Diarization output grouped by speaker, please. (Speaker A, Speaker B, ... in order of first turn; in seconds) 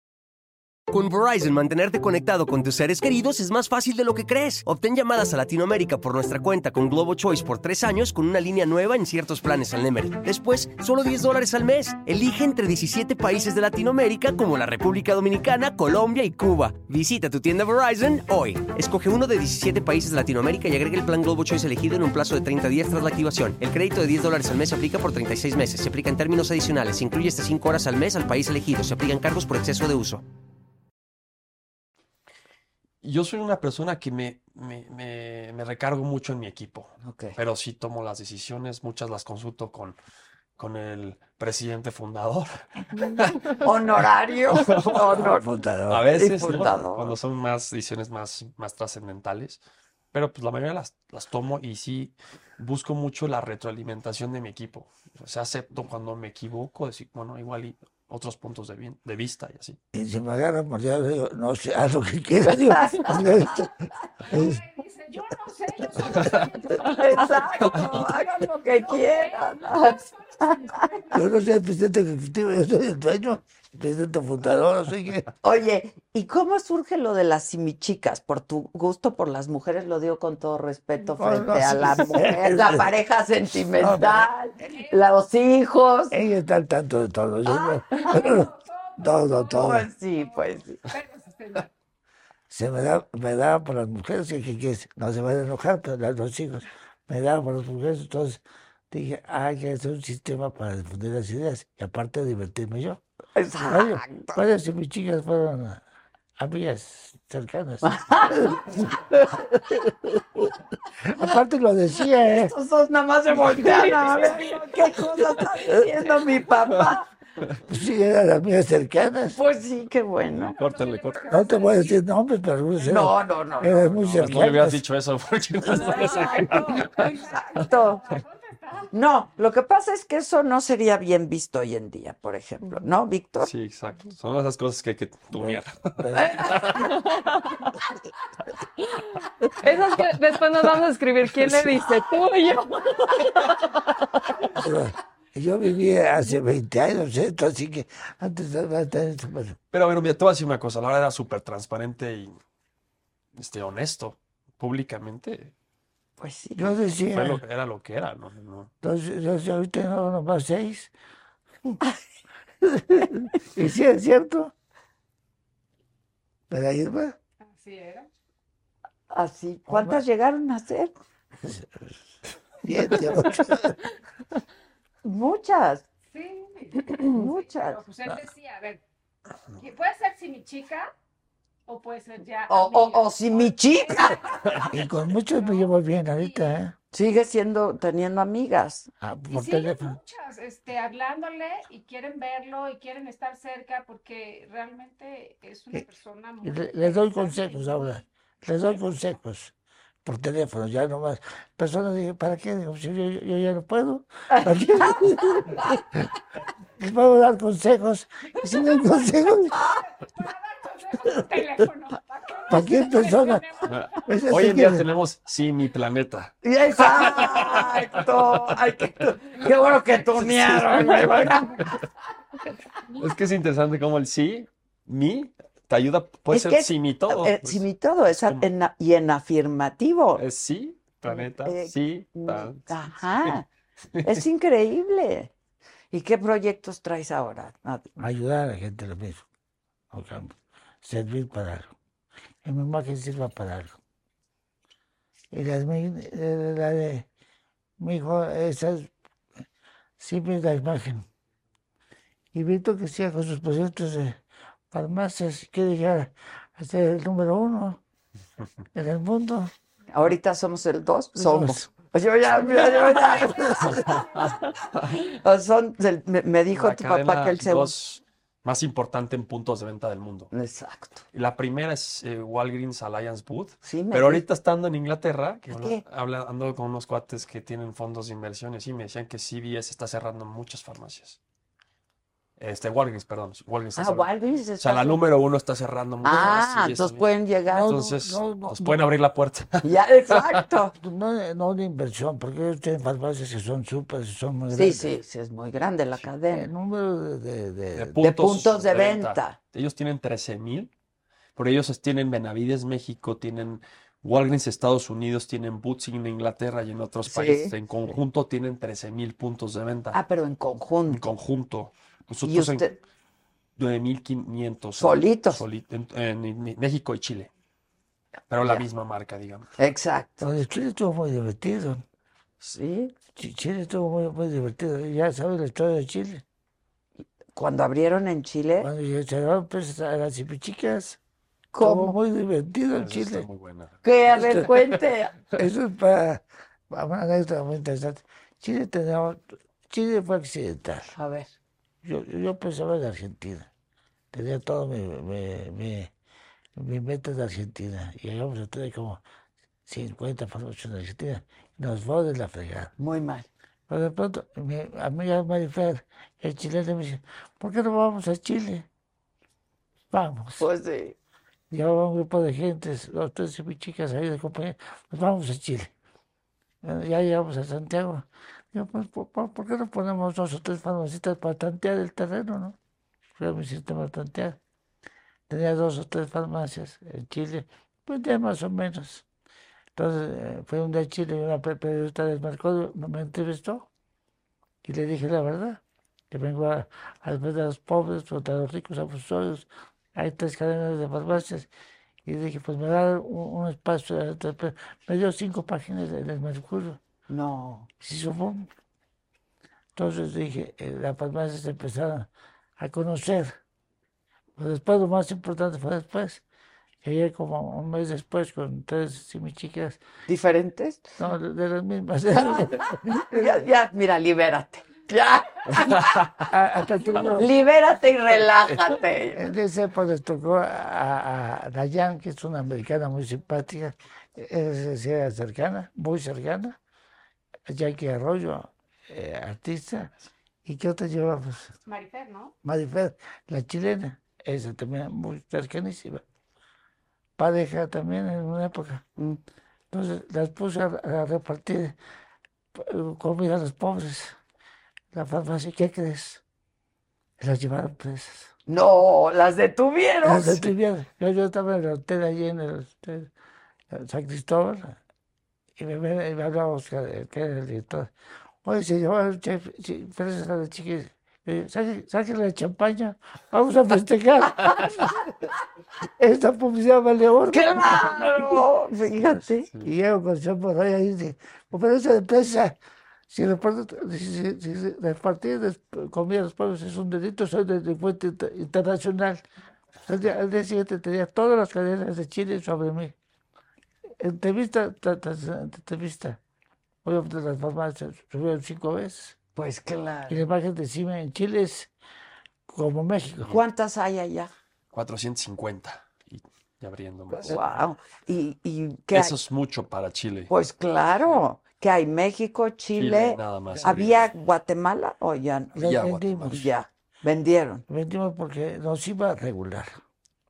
Speaker A: 0.9-30.2
Speaker B: 33.0-40.0, 40.6-43.6, 44.5-45.3, 45.9-49.6, 50.1-59.8, 66.1-66.5, 120.5-121.4, 124.0-127.0, 133.4-137.0, 141.3-141.8, 149.7-152.3, 153.4-155.5, 157.1-158.7, 213.7-218.6, 220.1-221.7, 222.9-228.5, 230.2-232.7, 233.9-234.2, 266.5-270.3, 271.1-281.2, 282.4-290.4, 297.8-300.7, 301.4-310.0, 310.9-312.7, 313.6-317.3, 318.3-319.5, 332.7-334.7, 494.7-497.5, 498.9-500.3, 502.7-504.1, 505.6-506.4
Speaker C: 37.0-37.4, 43.6-45.5, 46.1-47.2, 62.5-63.5, 66.8-70.8, 75.4-86.2, 87.5-88.3, 89.5-90.8, 103.4-104.4, 107.8-108.9, 112.3-117.1, 119.3-120.6, 122.9-124.5, 125.7-128.1, 128.9-133.5, 136.2-136.7, 156.2-156.8, 169.1-170.9, 175.0-175.9, 176.9-177.8, 182.5-184.6, 186.9-188.9, 204.3-205.6, 216.4-221.8, 226.3-230.2, 231.1-233.5, 234.0-235.3, 235.9-237.9, 259.9-267.8, 270.3-271.1, 273.6-274.3, 275.5-275.8, 283.8-285.0, 286.0-287.9, 289.6-290.8, 294.5-296.5, 298.0-299.4, 307.1-307.6, 309.9-311.0, 312.2-312.8, 314.8-315.4, 319.6-320.3, 322.4-322.9, 327.3-328.7, 331.5-332.0, 333.8-335.2, 340.9-341.3, 352.8-353.3, 360.4-360.9, 397.1-397.7, 410.1-410.9, 412.2-416.3, 417.1-419.2, 448.5-450.5, 467.3-469.5, 489.4-490.2, 493.3-494.3, 497.1-499.2, 500.3-505.6, 506.3-507.6
Speaker D: 45.1-46.7, 59.9-63.7, 64.3-64.6, 71.1-75.3, 81.2-82.9, 83.8-84.3, 86.1-89.9, 92.5-103.0, 103.7-105.8, 106.4-110.2, 111.0-112.5, 117.7-119.4, 121.3-124.8, 136.0-136.5, 144.6-149.6, 156.6-157.4, 158.8-160.9, 162.6-164.5, 166.5-167.2, 169.7-170.0, 171.4-172.0, 172.6-173.8, 184.7-186.7, 189.0-190.0, 196.4-199.5, 200.1-206.0, 206.8-209.6, 212.5-213.5, 214.1-214.9, 238.0-239.3, 239.9-241.7, 242.4-243.8, 245.3-247.1, 247.8-248.9, 250.0-251.1, 252.3-254.2, 254.7-257.8, 258.8-259.5, 261.2-261.6, 287.5-288.8, 290.8-294.9, 296.3-298.1, 320.2-321.8, 323.2-326.2, 328.6-331.0, 331.6-333.3, 335.4-340.9, 341.8-343.5, 344.1-345.9, 346.6-349.0, 349.7-352.7, 353.7-358.7, 359.9-360.5, 361.5-365.7, 366.6-372.6, 373.2-374.4, 375.3-379.1, 379.8-383.7, 384.6-391.5, 392.1-396.8, 397.8-398.5, 399.8-403.4, 404.4-406.2, 406.8-409.8, 411.0-413.4, 416.3-417.3, 419.1-426.6, 427.5-429.9, 430.4-431.6, 432.4-436.0, 437.2-438.8, 439.7-441.8, 442.6-444.2, 444.9-446.2, 447.2-448.3, 450.0-453.1, 453.7-454.8, 455.6-457.9, 458.4-465.1, 466.0-468.4, 469.6-472.6, 473.1-479.2, 479.9-482.9, 484.0-486.2, 486.8-489.2, 490.1-491.7, 492.5-493.4, 505.6-506.5, 507.7-509.8
Speaker E: 64.2-71.4, 84.6-85.1, 87.9-91.7, 120.4-122.0, 125.6-128.9, 167.4-168.1, 176.1-178.8, 179.6-180.9, 181.7-186.6, 189.3-198.1, 209.5-214.3, 431.7-432.3
Speaker F: 137.0-137.7, 139.6-144.5